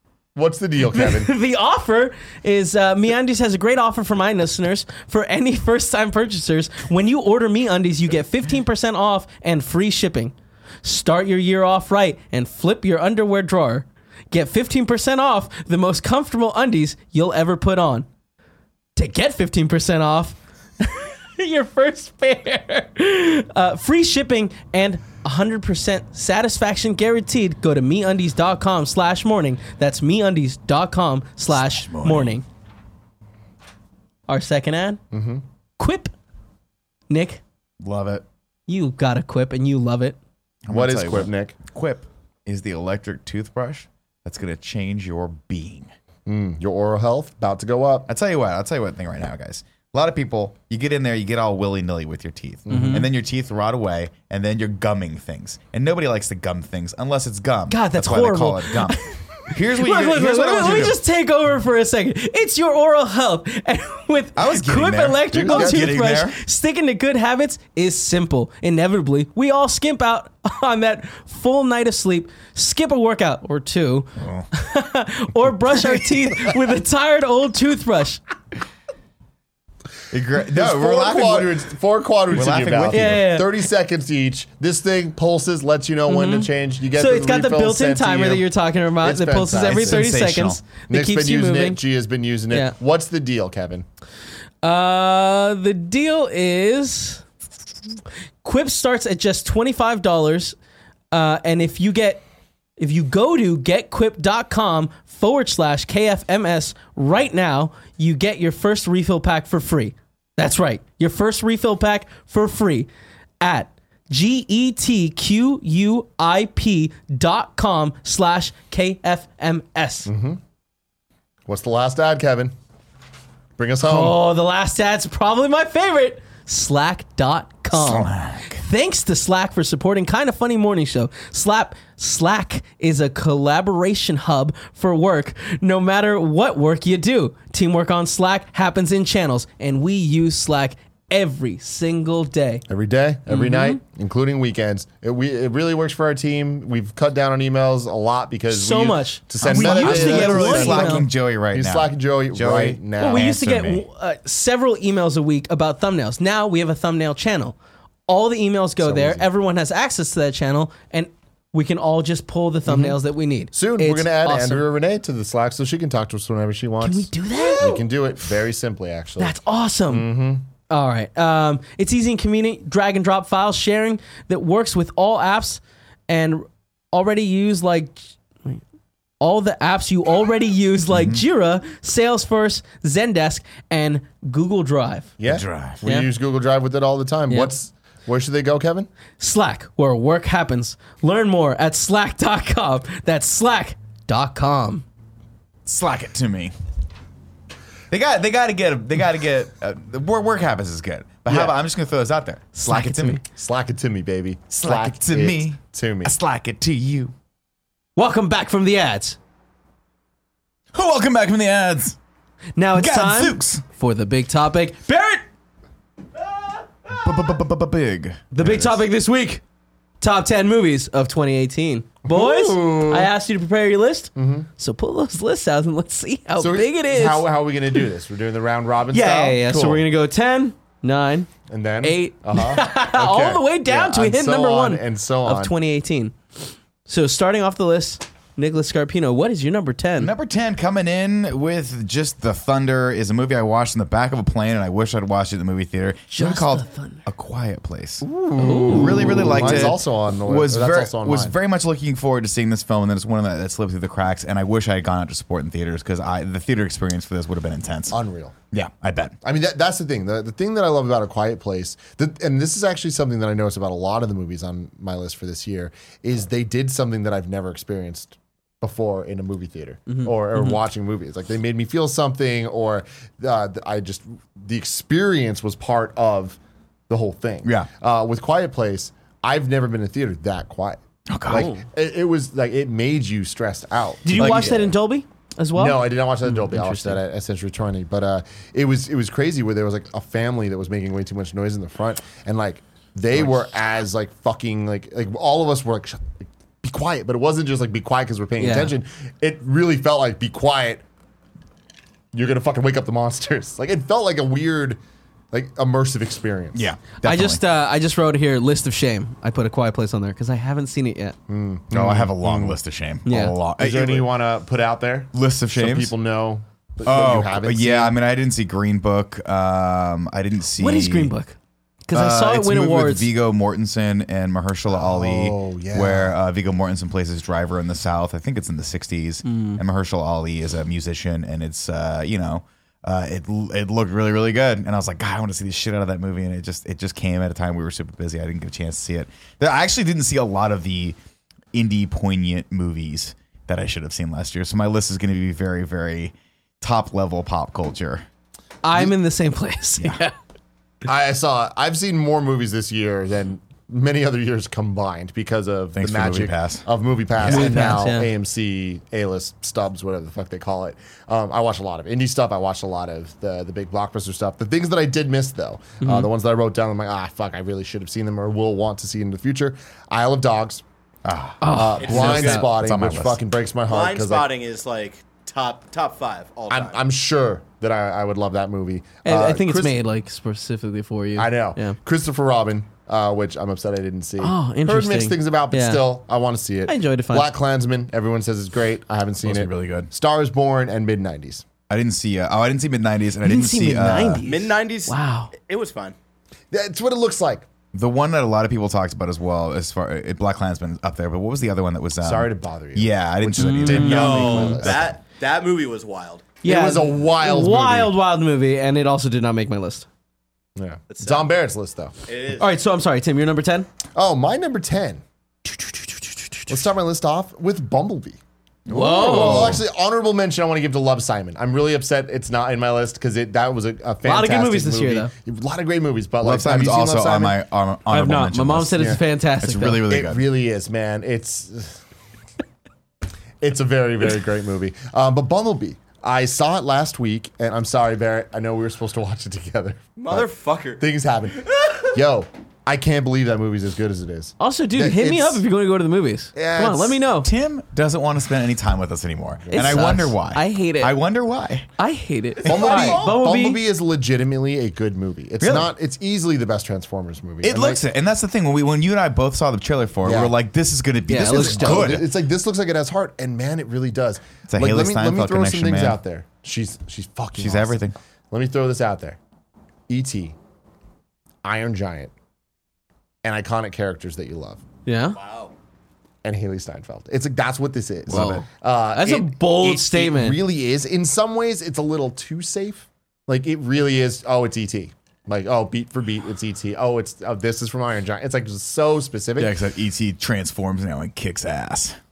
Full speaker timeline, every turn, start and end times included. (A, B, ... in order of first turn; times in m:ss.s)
0:00.3-0:01.3 A
0:00.9-0:18.0 B
0:19.0-0:32.4 B
0:31.5-0:32.4 C
0:34.3-0:35.0 B
0:35.1-0:35.4 A
0:35.8-0:36.1 B
0:37.1-0:37.4 B
0:37.8-0:38.2 C
0:38.7-0:40.2 B
0:40.7-0:45.9 C
0:40.7-0:41.6 A
0:46.3-0:48.1 A
0:48.1-1:01.0 C
0:52.7-0:53.1 A
0:52.7-0:53.0 B
0:57.7-1:18.2 B
1:04.4-1:06.4 C
1:05.3-1:06.0 A
1:14.2-1:14.5 C
1:20.1-1:21.6 C
1:20.5-1:28.5 A
1:22.3-1:23.3 C
1:22.9-1:23.5 B
1:26.1-1:31.8 B
1:29.0-1:30.1 A
1:29.6-1:30.6 C
1:30.9-1:33.8 A
1:32.5-1:32.7 B
1:34.6-1:37.2 B
1:38.4-1:40.6 B
1:41.1-1:42.2 B
1:42.8-1:52.9 B
1:53.4-2:00.1 B
2:00.1-2:00.4 A
2:01.4-2:02.5 A
2:03.6-2:04.2 A
2:03.8-2:22.6 B
2:07.7-2:08.6 C
2:22.7-2:33.3 A
2:23.3-2:23.8 B
2:28.5-2:31.0 B
2:29.4-2:33.8 C
2:33.0-2:37.6 B
2:38.1-2:44.6 B
2:38.8-2:39.3 A
2:42.7-2:43.0 A
2:43.5-2:49.4 A
2:46.8-2:47.9 B
2:49.2-2:50.1 B
2:49.9-2:50.4 A
2:50.7-2:58.6 B
2:59.2-3:05.1 B
3:00.9-3:01.2 C
3:05.2-3:08.9 A
3:05.2-3:05.8 C
3:09.2-3:14.8 B
3:15.6-3:16.5 C
3:17.9-3:23.2 C
3:21.3-3:21.6 A
3:22.5-3:23.2 B
3:23.2-3:26.1 A
3:24.6-3:27.1 C
3:28.0-3:29.2 B
3:30.7-3:32.0 C
3:32.6-3:35.2 B
3:32.7-3:33.6 C
3:37.0-3:38.8 C
3:38.3-3:39.4 B
3:40.0-3:47.8 B
3:42.0-3:43.1 A
3:44.2-3:44.5 A
3:46.4-3:49.9 A
3:48.9-3:51.3 B
3:51.5-3:55.5 A
3:51.8-3:56.2 B
3:56.9-4:00.1 B
4:00.0-4:18.0 C
4:06.1-4:07.0 B
4:08.0-4:11.3 A
4:08.4-4:09.7 B
4:17.9-4:18.4 A
4:18.5-4:19.1 C
4:19.2-4:36.4 A
4:29.9-4:30.6 B
4:36.9-4:44.7 A
4:37.4-4:37.7 C
4:41.1-4:41.5 C
4:41.3-4:41.6 B
4:44.0-4:47.0 B
4:44.1-4:44.6 C
4:45.6-5:00.8 A
4:53.1-4:53.4 C
4:58.4-4:58.7 B
5:02.1-5:04.8 A
5:05.3-5:06.7 A
5:06.5-5:07.4 C
5:07.0-5:11.2 B
5:11.3-5:12.6 A
5:11.7-5:14.1 C
5:13.0-5:13.3 B
5:13.6-5:17.9 A
5:15.1-5:15.9 C
5:16.8-5:21.1 C
5:20.6-5:23.0 B
5:21.9-5:41.0 C
5:24.7-5:26.1 A
5:29.2-5:29.6 B
5:41.5-5:48.0 C
5:48.6-5:50.2 B
5:50.8-6:10.6 A
5:55.7-5:57.8 C
5:57.2-5:58.1 B
6:05.8-6:06.1 B
6:11.0-6:13.2 C
6:11.4-6:12.5 B
6:11.5-6:14.3 A
6:11.8-6:12.4 D
6:13.7-6:16.8 D
6:16.5-6:19.8 A
6:19.0-6:21.8 B
6:21.2-6:31.4 A
6:24.2-6:25.9 B
6:26.6-6:27.3 B
6:29.2-6:29.9 C
6:31.7-6:34.2 C
6:33.2-6:35.3 B
6:34.2-6:36.0 D
6:36.5-6:37.5 A
6:37.7-6:45.0 C
6:42.0-6:44.9 A
6:43.4-6:44.5 B
6:43.7-6:46.4 D
6:46.4-6:47.9 A
6:46.4-6:49.9 B
6:50.6-6:51.9 A
6:50.9-6:51.3 D
6:52.1-6:52.5 D
6:52.4-6:53.7 B
6:54.0-6:55.0 A
6:56.5-6:58.2 A
6:58.7-6:59.6 C
6:58.7-6:59.6 B
6:58.9-7:07.4 A
7:04.0-7:05.1 B
7:06.2-7:10.2 C
7:07.9-7:09.8 B
7:09.8-7:11.8 A
7:13.4-7:25.4 A
7:20.0-7:20.8 D
7:21.4-7:21.9 D
7:24.4-7:27.3 B
7:26.3-7:27.0 A
7:27.2-7:31.7 C
7:29.5-7:30.0 A
7:29.5-7:31.0 B
7:31.8-7:33.6 B
7:32.4-7:33.2 D
7:32.4-7:37.8 A
7:35.4-7:35.7 C
7:37.4-7:42.1 C
7:40.0-7:40.3 A
7:41.1-7:42.0 B
7:41.2-7:49.2 A
7:44.5-7:46.0 C
7:47.4-7:48.0 C
7:49.9-7:50.4 A
7:51.4-7:52.1 A
7:53.2-7:54.6 A
7:54.9-7:55.2 B
7:55.2-7:55.5 D
7:56.2-8:09.6 A
7:58.1-7:58.4 C
7:58.1-8:00.4 B
8:09.4-8:12.0 C